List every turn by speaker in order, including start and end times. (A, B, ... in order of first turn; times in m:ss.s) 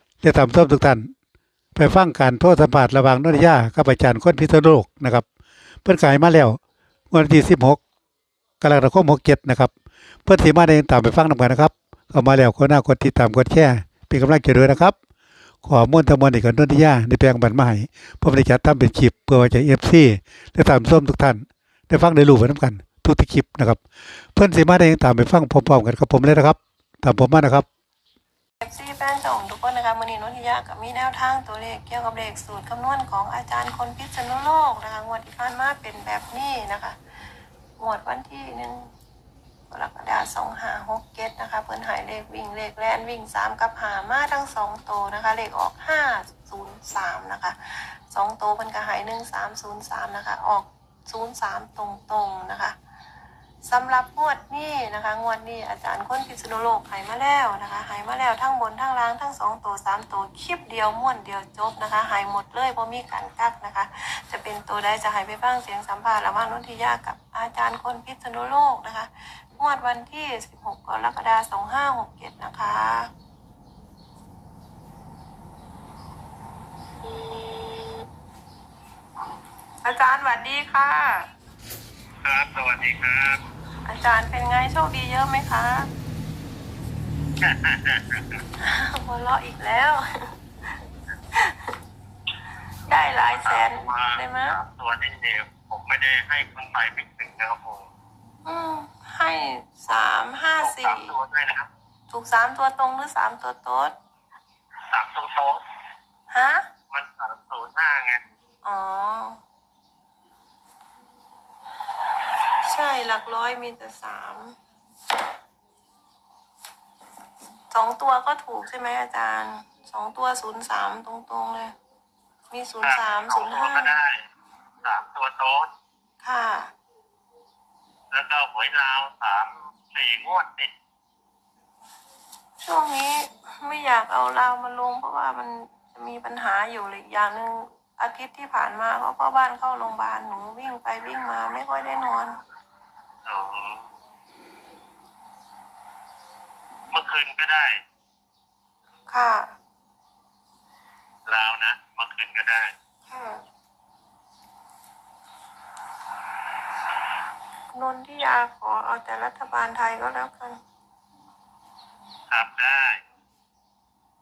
0:00.2-0:01.1 A
0:01.7-0:05.2 A
0:05.8-0:06.6 A
0:07.1-0:07.8 A
0:08.6-0:09.7 A
0:10.2-0:14.9 A
0:15.6-0:23.8 A
0:24.3-0:27.6 A
0:28.6-0:37.0 B
0:37.8-0:38.9 B
0:39.7-0:52.8 B
0:53.6-1:13.1 B
1:19.8-1:21.3 B
1:22.2-1:23.4 C
1:23.8-1:25.9 B
1:27.4-1:28.4 C
1:28.6-1:30.4 B
1:31.3-1:31.7 B
1:32.9-1:34.6 B
1:33.2-1:37.9 C
1:38.4-1:41.1 B
1:40.6-1:41.7 C
1:42.1-1:43.9 B
1:44.9-1:45.6 C
1:46.3-1:46.6 B
1:46.9-1:48.2 C
1:48.6-1:49.4 B
1:52.6-1:54.6 B
1:57.7-2:01.7 B
2:02.5-2:04.0 B
2:02.8-2:04.2 C
2:04.8-2:05.7 C
2:06.2-2:06.7 B
2:08.1-2:10.7 C
2:12.6-2:22.4 B
2:23.2-2:23.8 C
2:26.9-2:27.7 C
2:29.1-2:29.5 B
2:31.3-2:32.7 C
2:33.1-2:33.4 B
2:37.7-2:40.6 B
2:42.3-2:43.0 C